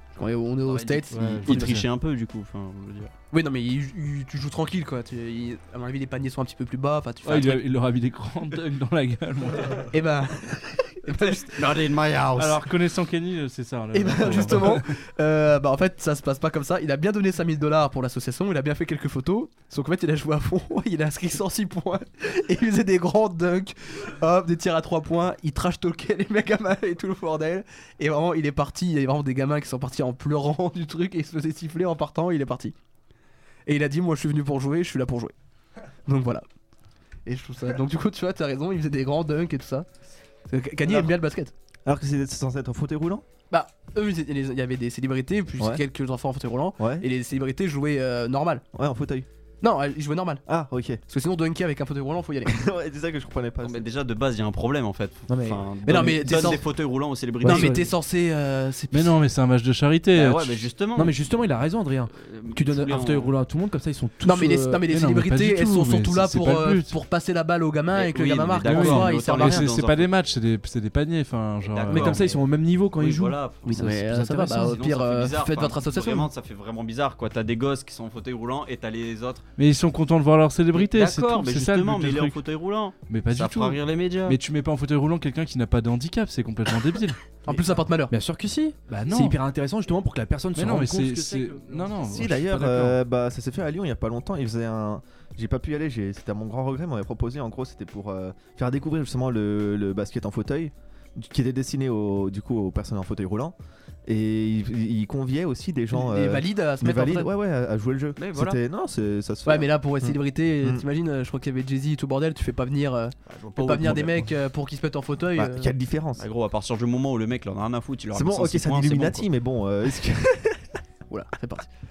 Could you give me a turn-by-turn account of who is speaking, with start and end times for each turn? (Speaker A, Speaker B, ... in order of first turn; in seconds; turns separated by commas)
Speaker A: 0.2-1.8, Speaker B: 0.7-3.1, Speaker C: 1.1-1.9, Speaker A: 3.3-7.6, Speaker C: 7.2-9.9, Speaker A: 9.8-11.6, Speaker B: 11.4-12.7, Speaker C: 12.3-14.9, Speaker A: 13.9-32.8, Speaker A: 33.7-35.3, Speaker A: 36.0-36.5, Speaker A: 37.3-39.9, Speaker A: 40.5-41.5, Speaker D: 40.9-41.1, Speaker D: 41.9-43.2, Speaker A: 43.5-48.6, Speaker D: 46.8-47.1, Speaker D: 48.7-49.3, Speaker A: 49.6-50.5, Speaker D: 50.5-51.0, Speaker A: 51.1-52.6, Speaker D: 52.5-53.9, Speaker B: 53.6-57.9, Speaker E: 55.3-56.1, Speaker A: 55.9-56.7, Speaker A: 57.4-59.1, Speaker E: 57.4-57.9, Speaker C: 58.9-60.7, Speaker B: 60.1-61.2, Speaker E: 60.9-64.9, Speaker B: 62.1-63.3, Speaker A: 64.2-69.7, Speaker C: 64.9-67.0, Speaker B: 67.9-70.1, Speaker E: 68.7-69.0, Speaker C: 68.8-72.2, Speaker B: 71.7-79.5, Speaker E: 71.9-74.7, Speaker A: 73.7-76.3, Speaker C: 79.6-82.4, Speaker B: 80.7-84.4, Speaker C: 83.1-87.2, Speaker A: 87.5-88.1, Speaker E: 88.1-92.9, Speaker C: 88.9-89.4, Speaker C: 90.5-92.7, Speaker D: 92.0-103.5, Speaker D: 104.1-110.8, Speaker A: 105.9-107.3, Speaker B: 108.2-108.6, Speaker A: 109.5-115.7, Speaker B: 113.3-114.3, Speaker D: 115.3-116.3, Speaker B: 116.2-119.3, Speaker D: 118.1-120.8, Speaker A: 121.1-121.7